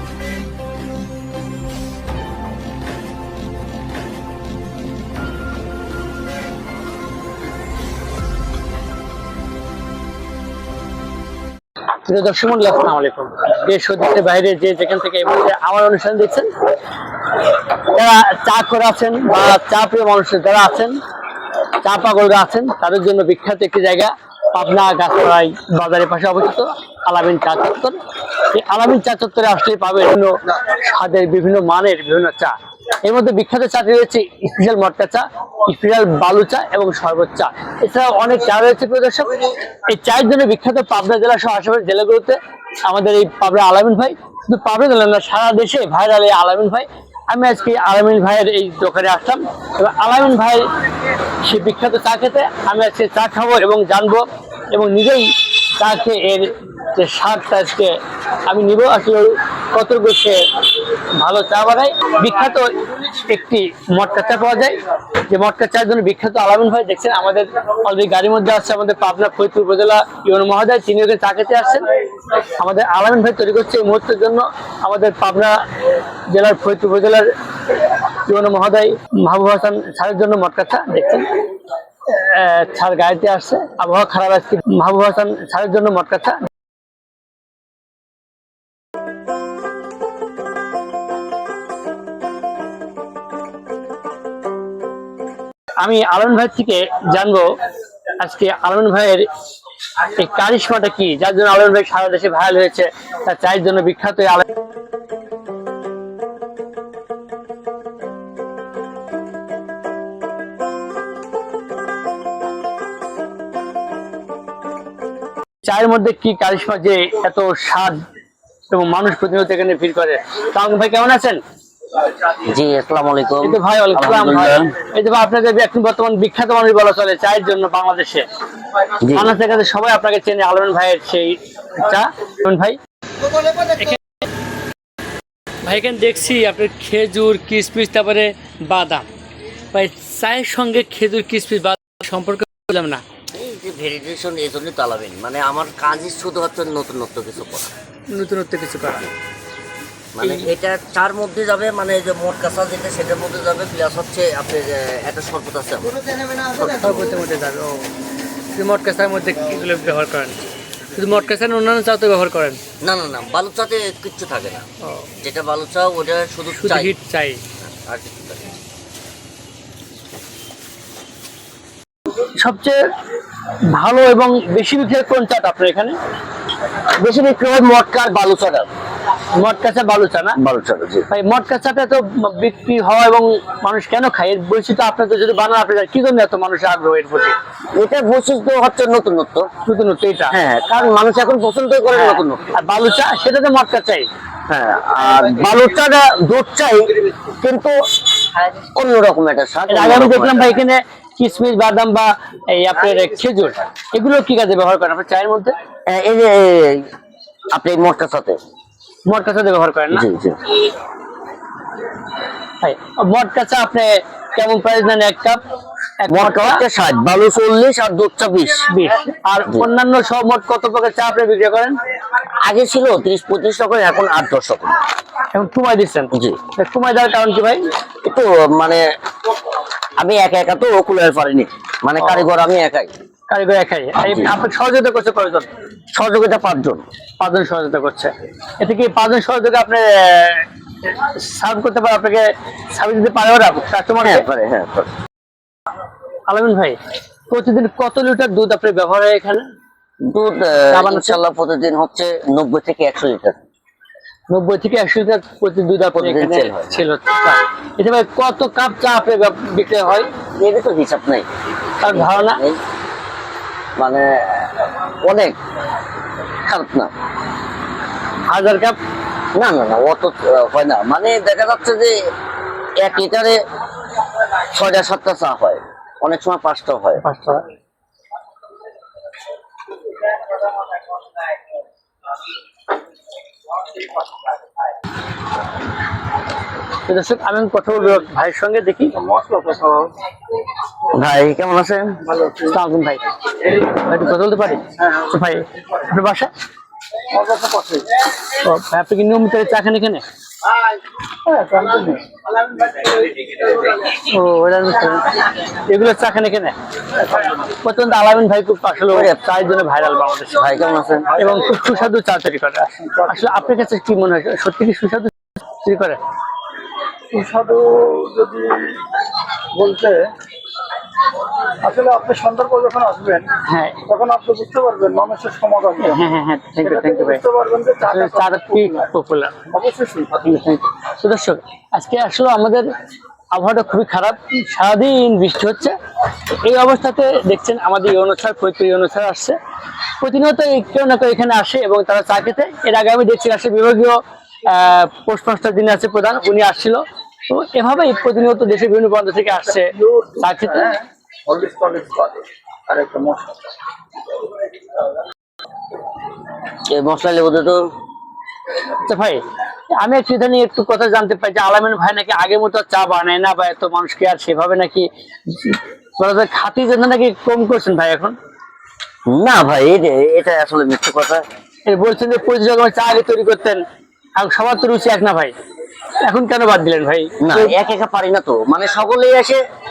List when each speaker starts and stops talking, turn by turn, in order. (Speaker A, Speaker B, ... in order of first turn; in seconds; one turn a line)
Speaker A: 12.1-16.5
Speaker A: 17.9-21.0
Speaker A: 21.8-50.6
Speaker A: 51.4-60.4
Speaker A: 61.1-75.6
Speaker A: 76.3-77.3
Speaker A: 78.2-81.3
Speaker A: 82.0-86.5
Speaker A: 95.8-97.5
Speaker A: 98.2-99.3
Speaker A: 100.0-104.5
Speaker A: 115.6-118.0
Speaker A: 118.7-121.4
Speaker B: 122.3-124.7
Speaker A: 123.4-128.2
Speaker B: 129.0-129.3
Speaker A: 129.1-132.8
Speaker A: 133.6-134.0
Speaker A: 135.6-139.1
Speaker A: 139.7-143.0
Speaker B: 143.3-147.7
Speaker A: 148.1-149.1
Speaker B: 150.1-157.1
Speaker A: 150.2-150.5
Speaker A: 156.6-157.9
Speaker A: 158.5-160.4
Speaker A: 160.9-162.6
Speaker B: 162.8-164.7
Speaker A: 164.8-165.1
Speaker B: 165.2-166.9
Speaker A: 166.5-167.4
Speaker B: 167.6-168.6
Speaker A: 172.2-172.8
Speaker A: 173.7-176.0
Speaker B: 176.9-178.7
Speaker A: 179.3-180.4
Speaker B: 180.4-181.1
Speaker A: 181.1-187.3
Speaker B: 187.8-189.5
Speaker A: 189.6-190.3
Speaker B: 190.3-192.5
Speaker A: 191.9-194.1
Speaker B: 194.5-197.8
Speaker B: 198.3-200.5
Speaker A: 199.7-205.6
Speaker B: 205.8-206.9
Speaker B: 207.5-208.4
Speaker A: 209.1-210.1
Speaker B: 209.9-210.4
Speaker A: 212.6-215.4
Speaker A: 216.0-216.6
Speaker B: 216.1-218.7
Speaker A: 218.7-221.8
Speaker B: 222.4-224.7
Speaker A: 225.3-227.7
Speaker B: 226.1-226.4
Speaker B: 228.0-228.8
Speaker B: 230.0-232.9
Speaker A: 233.3-235.5
Speaker B: 235.9-236.8
Speaker A: 237.2-244.2
Speaker B: 244.0-244.9
Speaker A: 246.3-246.8
Speaker A: 247.3-249.4
Speaker B: 250.0-253.4
Speaker A: 250.7-251.2
Speaker A: 254.3-260.1
Speaker B: 255.9-256.8
Speaker B: 260.3-261.3
Speaker A: 261.8-262.4
Speaker B: 261.8-262.6
Speaker B: 263.8-265.3
Speaker B: 266.4-266.9
Speaker A: 268.3-268.8
Speaker B: 269.3-271.9
Speaker B: 272.8-273.4
Speaker B: 274.3-277.0
Speaker A: 277.0-277.4
Speaker A: 286.9-289.0
Speaker C: 289.0-289.9
Speaker B: 290.9-292.0
Speaker C: 292.1-292.4
Speaker A: 292.4-296.3
Speaker C: 297.1-297.9
Speaker A: 298.2-300.0
Speaker A: 301.3-302.0
Speaker A: 303.8-306.5
Speaker A: 307.4-310.4
Speaker B: 308.9-309.2
Speaker B: 310.4-311.2
Speaker A: 311.2-316.0
Speaker C: 317.1-318.8
Speaker C: 319.5-320.1
Speaker C: 321.6-323.3
Speaker A: 323.4-323.8
Speaker C: 323.8-326.0
Speaker A: 325.8-327.2
Speaker C: 326.6-328.9
Speaker A: 327.8-329.4
Speaker C: 329.5-330.4
Speaker A: 330.2-332.7
Speaker A: 333.3-335.7
Speaker A: 336.4-339.4
Speaker A: 340.0-350.8
Speaker C: 349.8-353.4
Speaker B: 356.6-357.7
Speaker A: 358.8-359.2
Speaker A: 359.8-368.1
Speaker B: 369.1-371.2
Speaker A: 371.7-373.6
Speaker A: 374.2-375.3
Speaker A: 376.0-377.5
Speaker B: 377.2-379.4